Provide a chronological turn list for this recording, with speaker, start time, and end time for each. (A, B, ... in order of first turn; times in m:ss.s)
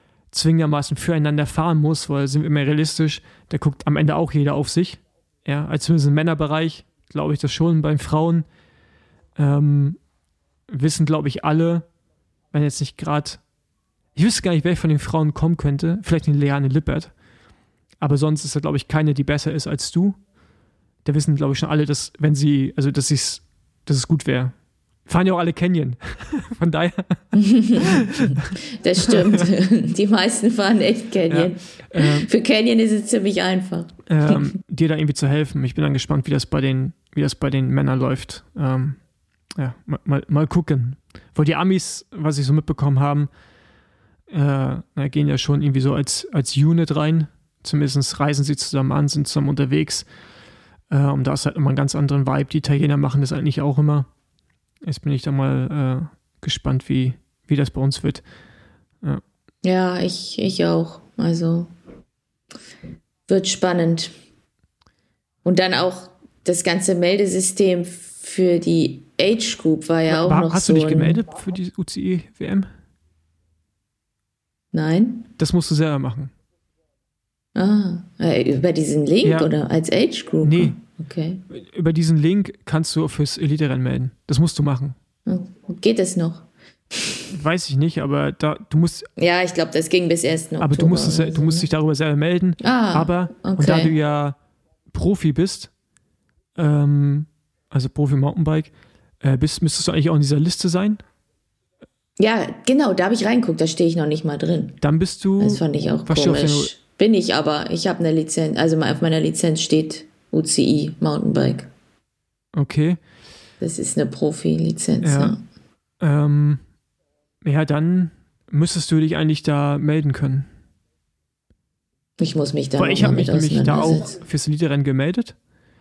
0:00.3-0:08.4 A
0:09.4-0:10.0 A
0:10.7-0:11.9 A
0:12.5-0:13.4 A
0:14.1-0:17.1 A
0:18.0-0:20.2 A
0:21.0-0:28.6 A
0:27.4-0:28.0 B
0:28.8-0:34.0 B
0:29.1-0:29.4 A
0:31.3-0:32.3 A
0:34.1-0:39.0 A
0:39.6-0:43.3 A
0:44.3-0:50.1 A
0:50.9-0:54.1 A
0:54.8-0:58.2 A
0:59.6-1:01.7 B
1:03.3-1:04.1 B
1:05.4-1:11.2 B
1:10.1-1:12.7 A
1:14.7-1:15.3 B
1:15.4-1:16.3 A
1:17.6-1:21.4 B
1:19.2-1:19.5 A
1:20.4-1:20.8 A
1:21.5-1:25.0 A
1:25.3-1:27.2 B
1:27.3-1:29.1 A
1:29.2-1:31.7 B
1:30.6-1:34.4 A
1:32.6-1:33.9 B
1:34.9-1:35.7 A
1:36.6-1:41.0 A
1:42.2-1:44.8 B
1:44.8-1:46.7 A
1:45.4-1:51.7 B
1:52.6-1:53.0 A
1:53.6-1:55.4 B
1:55.0-1:55.4 A
1:56.0-1:56.6 A
1:57.4-2:00.5 A
2:02.2-2:04.1 B
2:02.8-2:05.4 A